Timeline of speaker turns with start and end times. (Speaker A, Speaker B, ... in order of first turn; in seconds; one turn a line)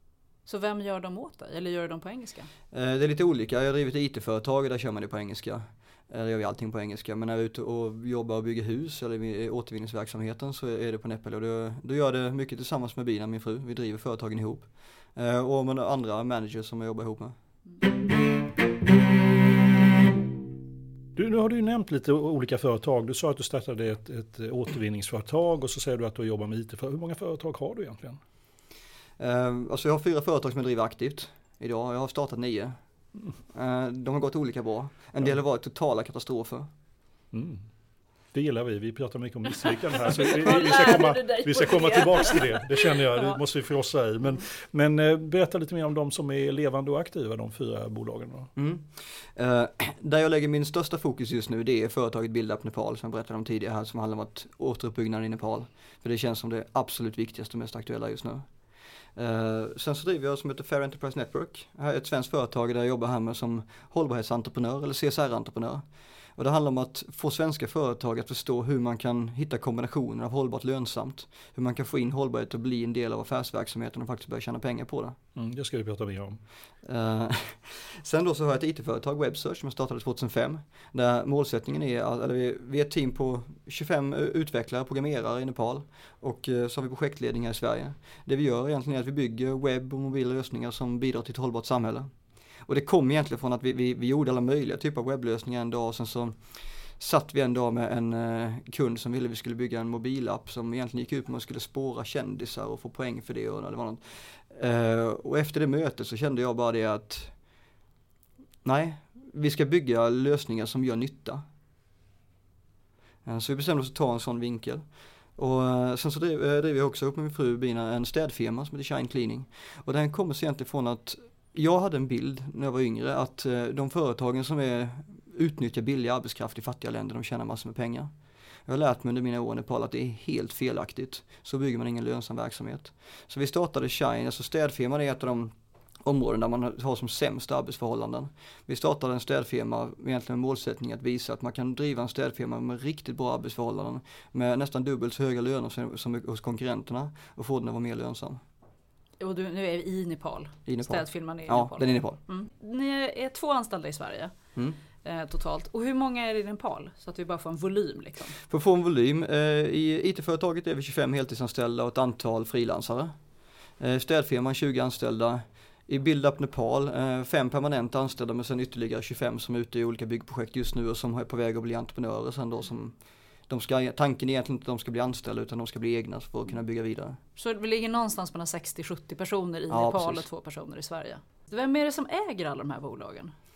Speaker A: 0.5-2.5
Speaker B: 2.7-17.4
Speaker C: 21.1-28.2
Speaker B: 29.2-32.8
Speaker B: 33.5-36.7
Speaker C: 37.3-37.6
Speaker C: 38.3-48.5
Speaker A: 40.1-43.4
Speaker B: 48.5-58.5
Speaker B: 59.1-65.8
Speaker B: 66.3-75.2
Speaker C: 75.3-76.4
Speaker B: 76.8-92.1
Speaker B: 92.6-96.4
Speaker B: 97.0-107.3
Speaker B: 108.6-111.4
Speaker B: 113.2-128.1
Speaker B: 128.7-135.5
Speaker B: 136.0-148.4
Speaker A: 149.2-154.3
Speaker B: 150.7-152.2
Speaker A: 155.0-158.4
Speaker B: 158.5-163.2
Speaker B: 163.8-177.2
Speaker A: 177.3-183.3
Speaker B: 179.7-180.2